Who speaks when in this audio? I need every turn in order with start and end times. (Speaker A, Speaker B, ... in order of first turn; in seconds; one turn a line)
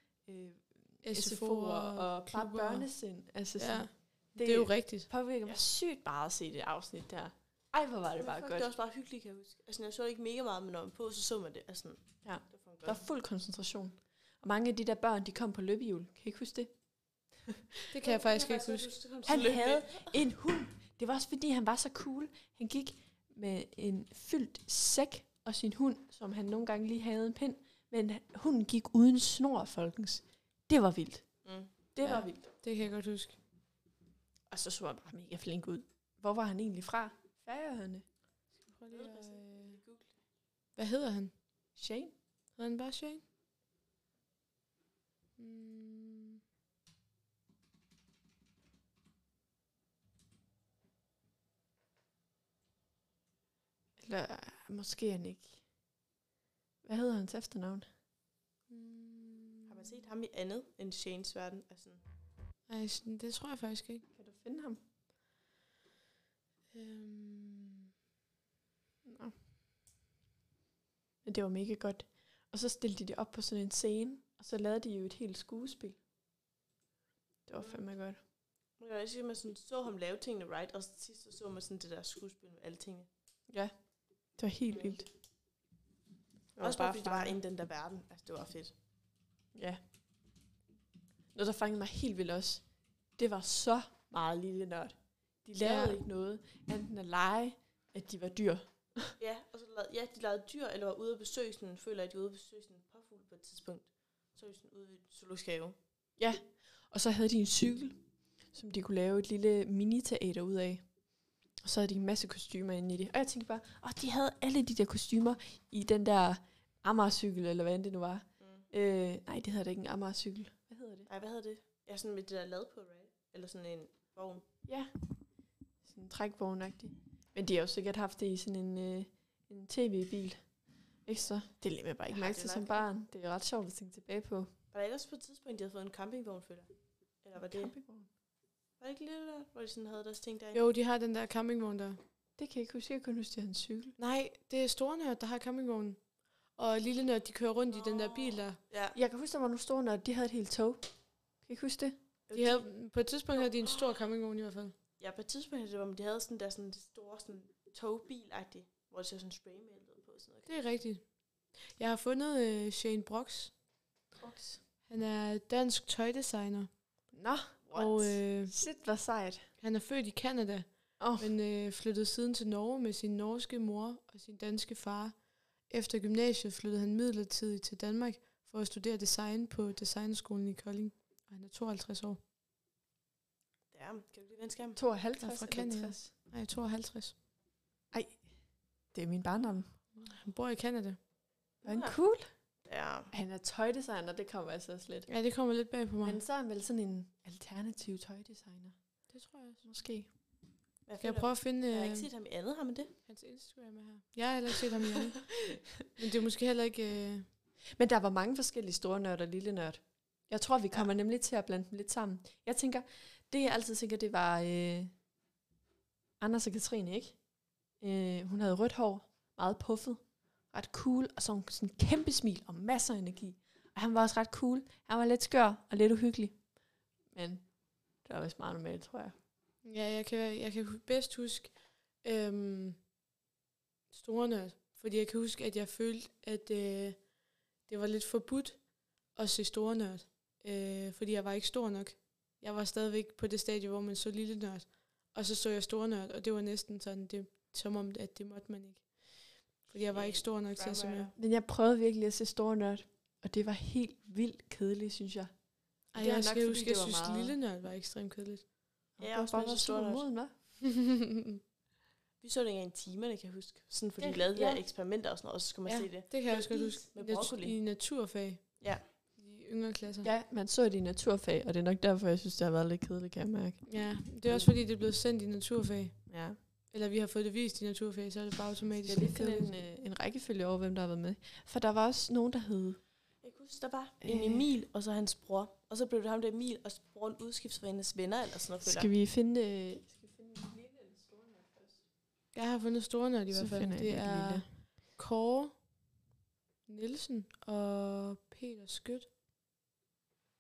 Speaker A: 0.3-8.7
Speaker B: 1.0-2.9
Speaker B: 3.6-5.1
Speaker C: 8.2-13.0
Speaker A: 12.2-16.7
Speaker A: 17.4-17.8
Speaker B: 17.9-18.9
Speaker C: 18.0-20.1
Speaker A: 19.3-31.3
Speaker C: 31.4-31.7
Speaker A: 31.9-32.5
Speaker B: 32.0-33.4
Speaker A: 34.5-38.0
Speaker B: 38.6-39.8
Speaker C: 38.9-40.1
Speaker B: 40.8-41.3
Speaker A: 41.8-42.1
Speaker B: 42.6-43.2
Speaker B: 45.4-46.4
Speaker A: 54.0-55.6
Speaker A: 56.8-57.9
Speaker B: 58.7-60.1
Speaker C: 59.7-62.0
Speaker B: 62.7-64.0
Speaker A: 64.1-64.8
Speaker B: 66.7-67.9
Speaker A: 69.0-69.3
Speaker A: 71.2-76.0
Speaker A: 77.5-78.2
Speaker C: 77.6-77.8
Speaker C: 78.8-83.1
Speaker A: 84.4-85.1
Speaker C: 84.7-85.0
Speaker A: 86.6-87.4
Speaker C: 86.6-88.7
Speaker A: 89.5-89.8
Speaker A: 91.3-92.6
Speaker A: 93.2-99.2
Speaker B: 95.6-96.0
Speaker C: 99.2-105.8
Speaker A: 106.2-108.0
Speaker A: 108.5-110.8
Speaker A: 111.6-121.1
Speaker C: 118.4-118.7
Speaker C: 121.1-124.5
Speaker A: 124.7-124.9
Speaker A: 125.8-130.4
Speaker A: 131.1-134.5
Speaker C: 132.1-132.8
Speaker C: 134.7-136.7
Speaker C: 137.2-137.7
Speaker A: 137.4-138.1
Speaker C: 138.8-140.6
Speaker B: 140.6-142.0
Speaker A: 142.4-144.0
Speaker B: 144.0-146.0
Speaker B: 146.6-148.6
Speaker C: 147.8-149.0
Speaker A: 148.9-150.8
Speaker A: 151.4-152.0
Speaker C: 152.3-152.7
Speaker B: 152.3-154.7
Speaker C: 153.4-154.0
Speaker C: 155.0-160.5
Speaker B: 160.5-161.0
Speaker B: 161.8-163.5
Speaker C: 164.2-164.6
Speaker B: 164.9-166.7
Speaker A: 167.1-167.6
Speaker C: 167.7-168.2
Speaker B: 167.8-168.5
Speaker A: 168.4-169.5
Speaker B: 169.6-175.2
Speaker A: 171.0-171.3
Speaker B: 175.7-182.2
Speaker C: 183.7-184.8
Speaker A: 184.8-186.1
Speaker B: 185.2-187.1
Speaker A: 187.9-188.2
Speaker A: 188.9-189.7
Speaker B: 190.0-191.0
Speaker C: 191.6-192.0
Speaker A: 191.7-192.3
Speaker C: 192.7-193.1
Speaker A: 193.1-195.1
Speaker B: 195.1-196.2
Speaker A: 196.0-198.8
Speaker B: 199.1-199.6
Speaker A: 199.6-200.1
Speaker C: 200.9-202.9
Speaker B: 201.0-202.1
Speaker B: 203.1-205.2
Speaker A: 205.3-205.6
Speaker B: 206.0-207.3
Speaker A: 207.8-214.9
Speaker A: 216.2-217.2
Speaker A: 217.8-226.4
Speaker A: 227.1-227.5
Speaker A: 228.0-229.2
Speaker B: 229.7-232.8
Speaker B: 233.9-237.1
Speaker B: 237.7-251.1
Speaker C: 249.9-251.2
Speaker A: 251.2-255.3
Speaker B: 255.9-258.5
Speaker A: 255.9-257.4
Speaker A: 259.0-260.3
Speaker C: 259.0-260.0
Speaker B: 260.8-261.4
Speaker C: 262.2-267.6
Speaker A: 264.0-264.6
Speaker B: 265.7-270.1
Speaker A: 270.0-273.6
Speaker B: 273.7-276.0
Speaker A: 276.1-276.4
Speaker B: 276.7-279.5
Speaker A: 278.8-282.8
Speaker C: 283.2-288.9
Speaker A: 284.1-284.4
Speaker A: 288.6-291.9
Speaker B: 292.3-295.6
Speaker A: 293.3-294.5
Speaker B: 296.7-299.1